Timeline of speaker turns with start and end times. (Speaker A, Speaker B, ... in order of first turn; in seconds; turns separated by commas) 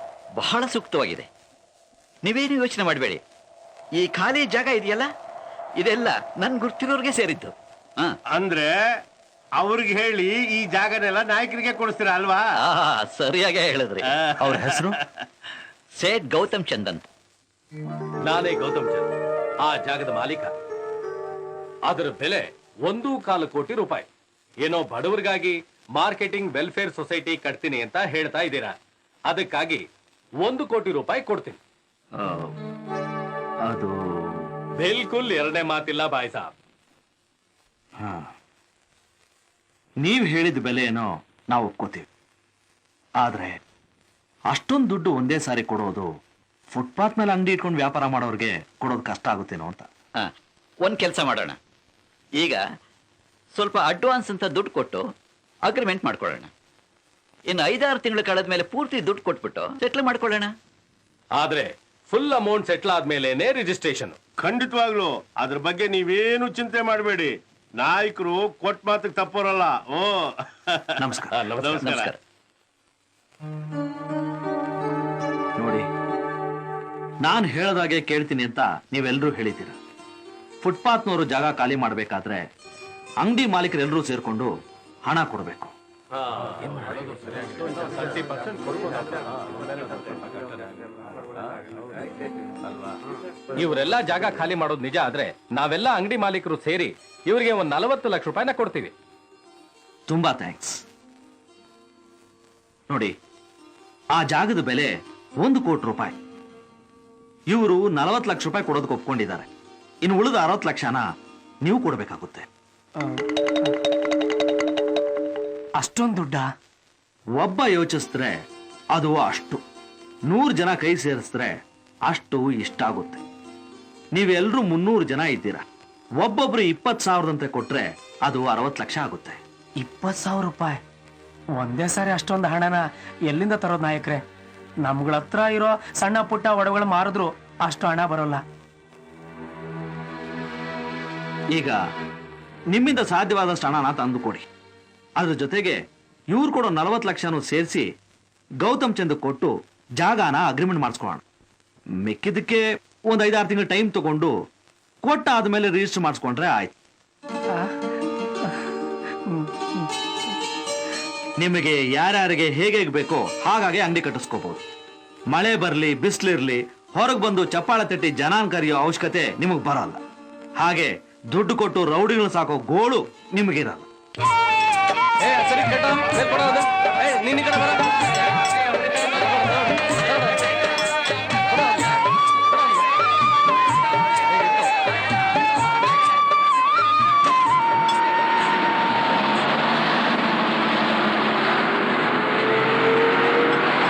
Speaker A: 0.4-1.3, Speaker A: 2.3-3.2, Speaker A: 4.0-5.1, Speaker A: 5.8-8.2, Speaker B: 8.3-8.7, Speaker B: 9.6-12.4, Speaker A: 12.7-14.1, Speaker B: 14.1-14.8, Speaker C: 14.4-15.0, Speaker A: 16.0-17.0, Speaker D: 18.3-19.1, Speaker D: 19.6-20.6, Speaker D: 21.9-24.1, Speaker D: 24.6-28.8, Speaker D: 29.3-29.9, Speaker D: 30.4-31.6, Speaker A: 32.2-32.5, Speaker C: 33.7-34.0, Speaker D: 34.8-36.5, Speaker C: 38.0-38.3, Speaker C: 40.0-42.1, Speaker C: 43.2-43.6, Speaker C: 44.5-46.1, Speaker C: 46.7-49.9, Speaker A: 50.8-51.6, Speaker A: 53.5-55.0, Speaker A: 55.7-56.5, Speaker A: 57.5-60.5, Speaker D: 61.4-64.2, Speaker B: 64.4-71.0, Speaker C: 71.0-71.3, Speaker B: 71.6-72.1, Speaker A: 71.6-72.1, Speaker C: 75.6-75.9, Speaker C: 77.2-79.8, Speaker C: 80.6-82.5, Speaker C: 83.2-84.5, Speaker C: 85.1-85.7, Speaker D: 87.9-88.9, Speaker D: 93.6-98.9, Speaker C: 100.1-100.8, Speaker C: 104.2-106.2, Speaker C: 107.5-109.5, Speaker C: 110.0-111.0, Speaker C: 111.6-112.5, Speaker E: 113.0-113.2, Speaker E: 115.8-116.5, Speaker C: 117.4-118.3, Speaker C: 118.9-119.6, Speaker C: 120.3-121.6, Speaker C: 122.1-123.2, Speaker C: 124.1-125.6, Speaker C: 126.2-129.4, Speaker E: 129.8-130.8, Speaker E: 131.6-134.2, Speaker E: 134.8-138.4, Speaker C: 142.7-144.4, Speaker C: 145.2-145.8, Speaker C: 146.3-147.8, Speaker C: 148.6-151.2, Speaker C: 152.0-154.3, Speaker C: 155.0-156.7, Speaker E: 159.3-159.9, Speaker C: 161.4-164.6, Speaker C: 165.3-170.0, Speaker C: 170.6-173.9, Speaker D: 175.2-177.7